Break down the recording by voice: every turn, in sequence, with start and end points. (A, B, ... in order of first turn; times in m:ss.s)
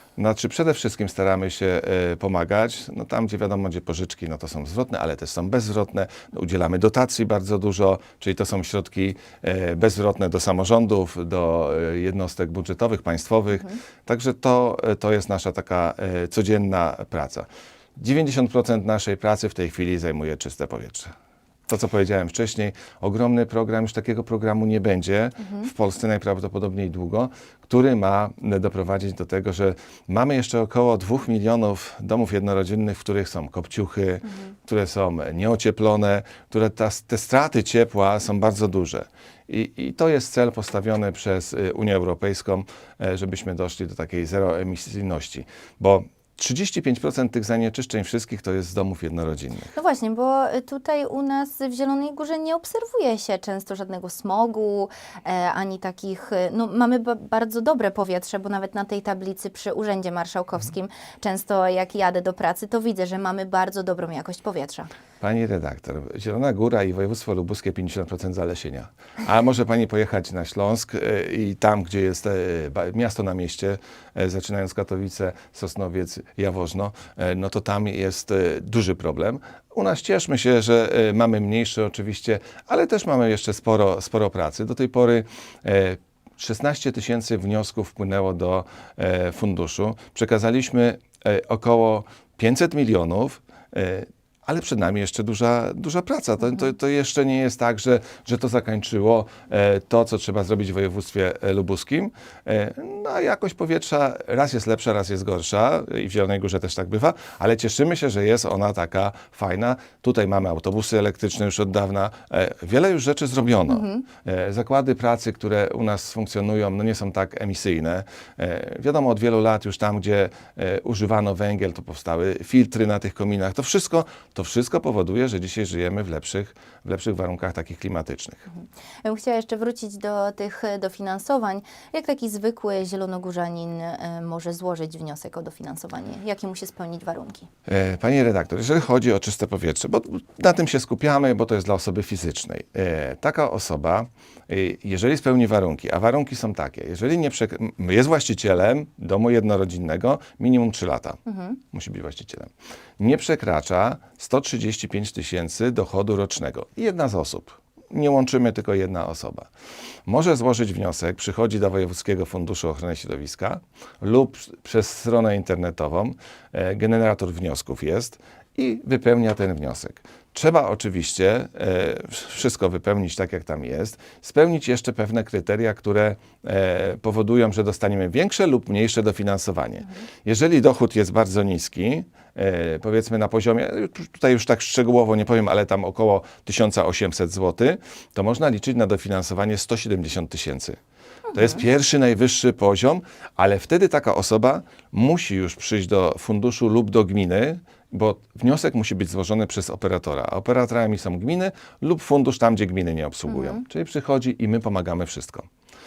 0:00.2-0:21.2 A
0:21.7-0:49.7 A
0:49.7-1:04.9 B
1:05.2-2:08.5 A
1:53.7-1:54.0 B
2:08.6-2:17.5 B
2:17.7-2:31.2 A
2:31.2-2:31.6 B
2:31.7-2:39.5 A
2:40.0-3:10.8 A
3:11.3-3:25.5 A
3:23.3-3:23.6 B